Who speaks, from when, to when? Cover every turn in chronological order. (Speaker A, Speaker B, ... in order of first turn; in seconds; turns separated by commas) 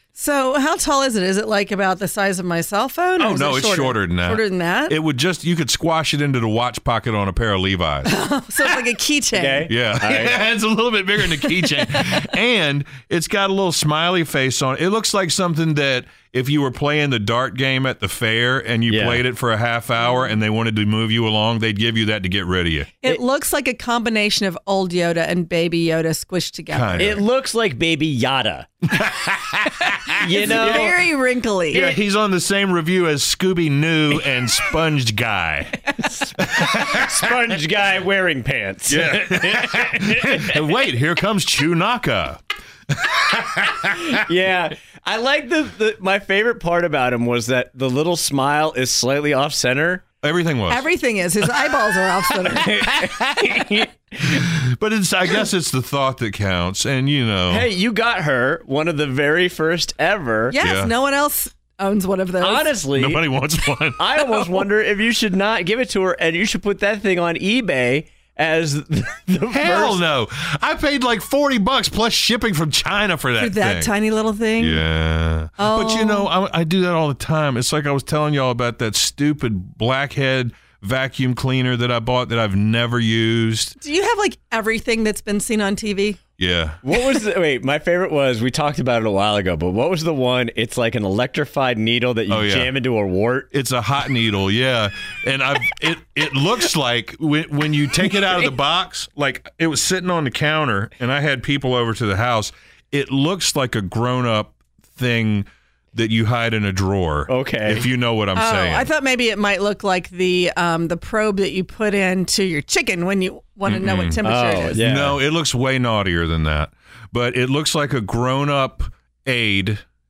Speaker A: 0.1-5.0, Speaker B: 3.2-8.1, Speaker A: 8.0-9.7, Speaker C: 9.3-10.4, Speaker B: 9.7-22.9, Speaker C: 18.9-19.2, Speaker A: 23.0-27.2, Speaker B: 26.7-27.2, Speaker C: 27.0-28.9, Speaker B: 28.9-31.0, Speaker C: 30.1-31.0, Speaker A: 30.1-31.9, Speaker B: 31.7-37.3, Speaker C: 31.7-32.0, Speaker C: 36.2-40.6, Speaker B: 38.9-44.2, Speaker C: 43.9-50.0, Speaker B: 50.2-50.9, Speaker A: 50.7-52.8, Speaker C: 52.5-54.3, Speaker B: 53.0-57.7, Speaker C: 57.5-60.5, Speaker A: 60.5-62.7, Speaker B: 60.6-60.9, Speaker C: 62.4-63.2, Speaker B: 62.9-64.6, Speaker C: 64.0-70.0, Speaker B: 69.5-73.9, Speaker A: 73.4-74.8, Speaker B: 74.6-83.8, Speaker A: 75.6-76.3, Speaker A: 83.8-86.2, Speaker B: 86.4-86.8, Speaker C: 86.8-93.5, Speaker B: 92.3-92.7, Speaker B: 93.5-108.9, Speaker C: 107.3-107.9, Speaker A: 108.3-114.8, Speaker B: 113.6-114.2, Speaker C: 114.2-115.2, Speaker B: 114.7-119.8